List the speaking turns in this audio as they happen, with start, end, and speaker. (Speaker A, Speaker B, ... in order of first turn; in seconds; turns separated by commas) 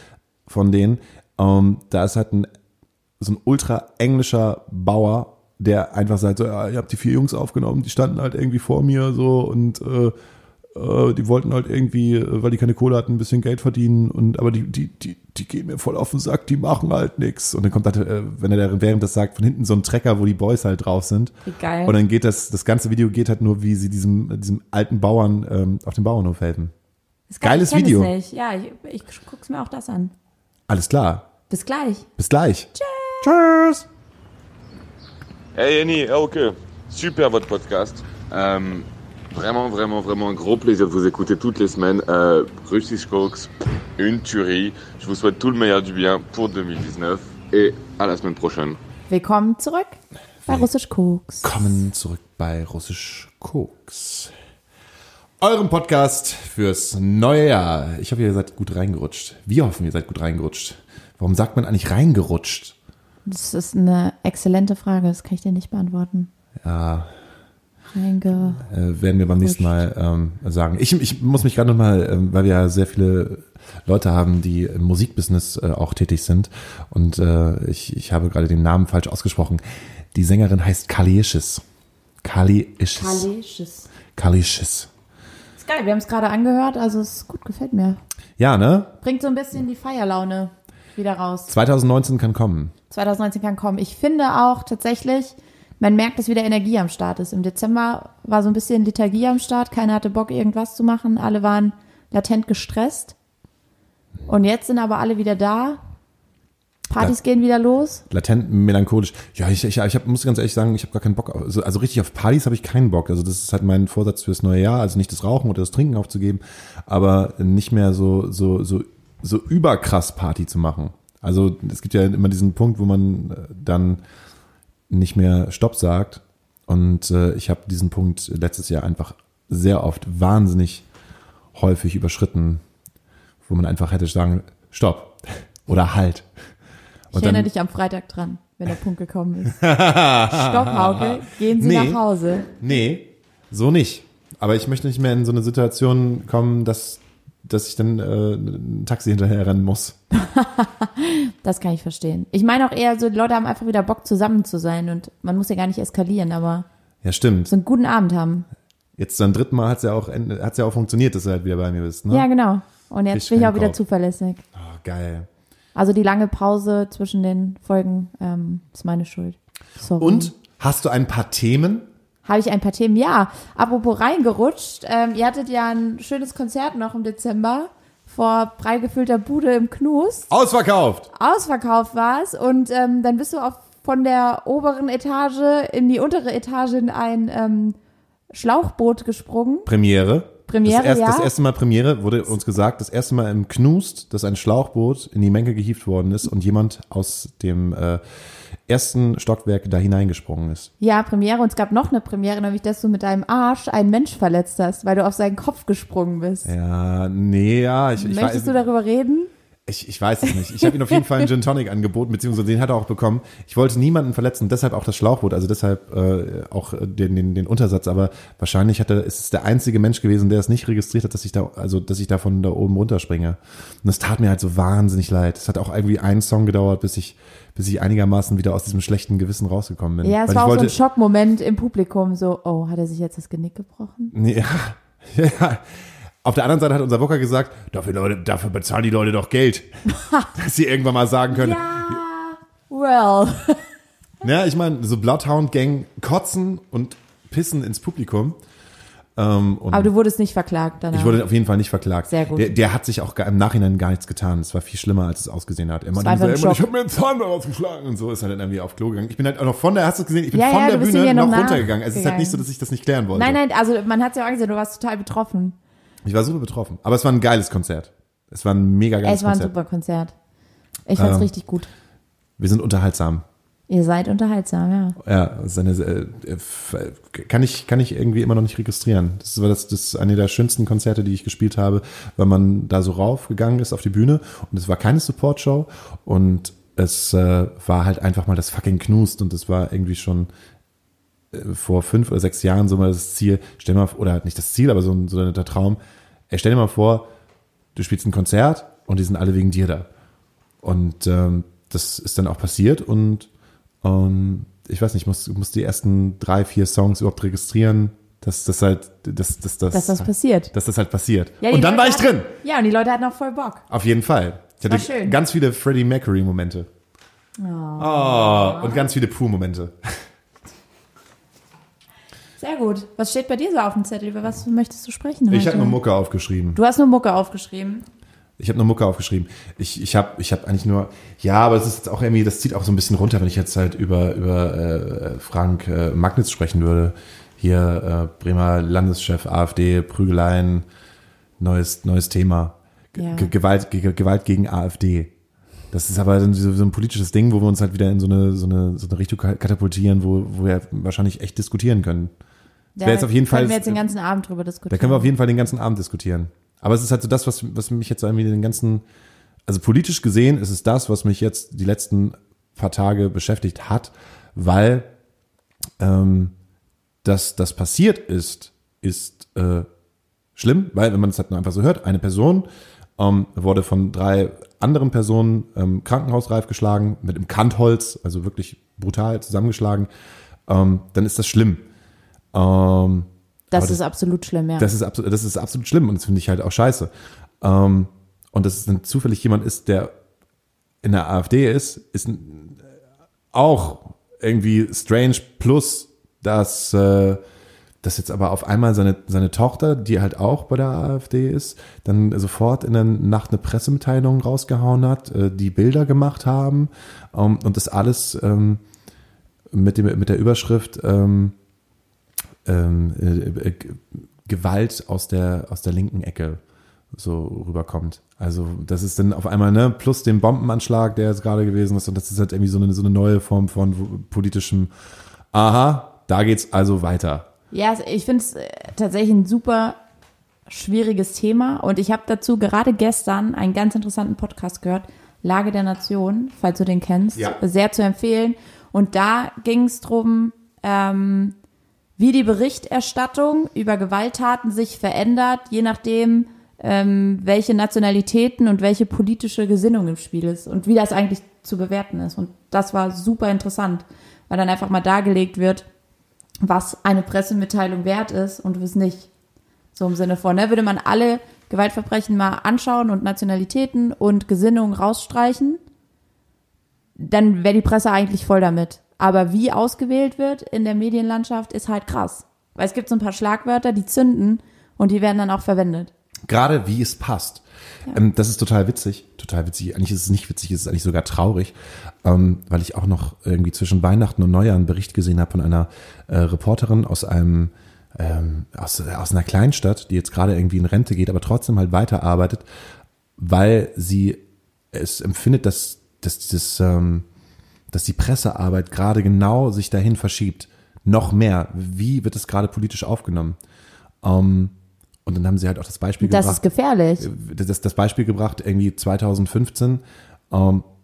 Speaker A: 0.5-2.5, Speaker A: 3.2-10.1, Speaker A: 10.7-26.7, Speaker B: 21.4-22.0, Speaker B: 27.3-30.1, Speaker A: 27.4-28.1, Speaker A: 30.7-31.3, Speaker B: 31.5-32.1, Speaker A: 32.2-33.9, Speaker B: 32.8-33.3, Speaker C: 35.5-48.8, Speaker B: 49.1-51.6, Speaker A: 51.4-54.3, Speaker A: 55.4-62.8, Speaker B: 63.3-66.3, Speaker A: 66.6-67.1, Speaker B: 67.9-68.6, Speaker A: 68.5-79.6, Speaker B: 69.4-69.8, Speaker A: 80.1-81.6, Speaker A: 82.2-83.3, Speaker B: 83.0-83.9, Speaker A: 84.2-84.9, Speaker B: 85.6-88.0, Speaker A: 88.4-88.9, Speaker B: 89.0-91.5, Speaker A: 91.5-92.8, Speaker B: 92.9-103.2, Speaker B: 104.3-105.8, Speaker B: 106.9-108.0, Speaker A: 108.1-124.0, Speaker A: 124.9-130.9, Speaker A: 131.6-132.6, Speaker A: 133.5-136.3, Speaker A: 137.1-137.5, Speaker B: 137.1-139.6, Speaker A: 139.5-150.0, Speaker B: 140.3-142.5, Speaker B: 150.1-156.7, Speaker A: 157.0-157.5, Speaker B: 157.5-158.5, Speaker A: 159.0-162.3, Speaker B: 162.1-164.4, Speaker A: 163.1-163.8, Speaker A: 164.5-165.3, Speaker B: 165.8-170.3, Speaker A: 170.0-171.9, Speaker B: 172.2-180.3, Speaker A: 180.3-181.1, Speaker B: 181.1-187.8, Speaker B: 188.3-189.7, Speaker A: 189.7-198.0, Speaker B: 190.5-191.3, Speaker A: 198.7-200.7, Speaker B: 200.8-206.5, Speaker A: 206.4-208.6, Speaker B: 208.0-209.3, Speaker A: 209.7-230.8, Speaker B: 210.3-211.2, Speaker B: 230.0-234.1, Speaker A: 234.1-235.7, Speaker A: 236.2-239.8, Speaker B: 239.9-240.3, Speaker A: 240.3-242.0, Speaker B: 241.3-243.7, Speaker A: 244.2-248.4, Speaker A: 249.2-249.9, Speaker B: 249.7-251.2, Speaker A: 250.9-263.4, Speaker B: 252.1-252.5, Speaker B: 255.9-256.6, Speaker B: 260.3-262.4, Speaker B: 263.1-265.6, Speaker A: 266.0-269.5, Speaker B: 269.0-270.1, Speaker B: 270.9-271.7, Speaker A: 271.0-271.3, Speaker A: 272.4-273.2, Speaker B: 273.7-275.0, Speaker A: 275.0-290.3, Speaker A: 291.3-295.8, Speaker A: 296.3-297.1, Speaker A: 297.8-299.9, Speaker A: 300.6-303.3, Speaker A: 303.8-312.3, Speaker B: 309.7-310.5, Speaker B: 311.4-313.6, Speaker A: 313.7-316.7, Speaker B: 314.7-315.2, Speaker B: 317.4-318.9, Speaker A: 317.8-319.9, Speaker B: 322.4-325.8, Speaker A: 325.3-326.6, Speaker B: 326.6-327.9, Speaker A: 328.4-340.7, Speaker A: 341.4-345.1, Speaker B: 342.9-343.3, Speaker A: 345.7-352.1, Speaker B: 352.8-355.1, Speaker A: 352.8-353.8, Speaker A: 354.7-358.8, Speaker A: 359.5-364.9, Speaker A: 365.8-366.3, Speaker A: 367.0-369.7, Speaker A: 370.4-372.5, Speaker A: 373.0-379.9, Speaker A: 380.5-381.6, Speaker A: 382.3-383.8, Speaker B: 383.5-384.7, Speaker A: 384.6-386.9, Speaker A: 387.4-389.9, Speaker A: 390.8-392.6, Speaker A: 393.3-397.2, Speaker A: 397.8-408.6, Speaker A: 409.5-411.4, Speaker A: 412.4-416.4, Speaker A: 416.9-424.7, Speaker A: 425.3-427.3, Speaker B: 427.5-429.8, Speaker B: 430.5-441.4, Speaker B: 442.0-455.7, Speaker B: 456.4-459.1, Speaker B: 459.8-465.6, Speaker B: 467.0-475.9, Speaker A: 476.3-492.5, Speaker A: 493.2-497.1, Speaker A: 497.7-503.4, Speaker A: 504.0-504.5, Speaker A: 505.1-506.4, Speaker B: 506.0-507.1, Speaker A: 507.0-510.7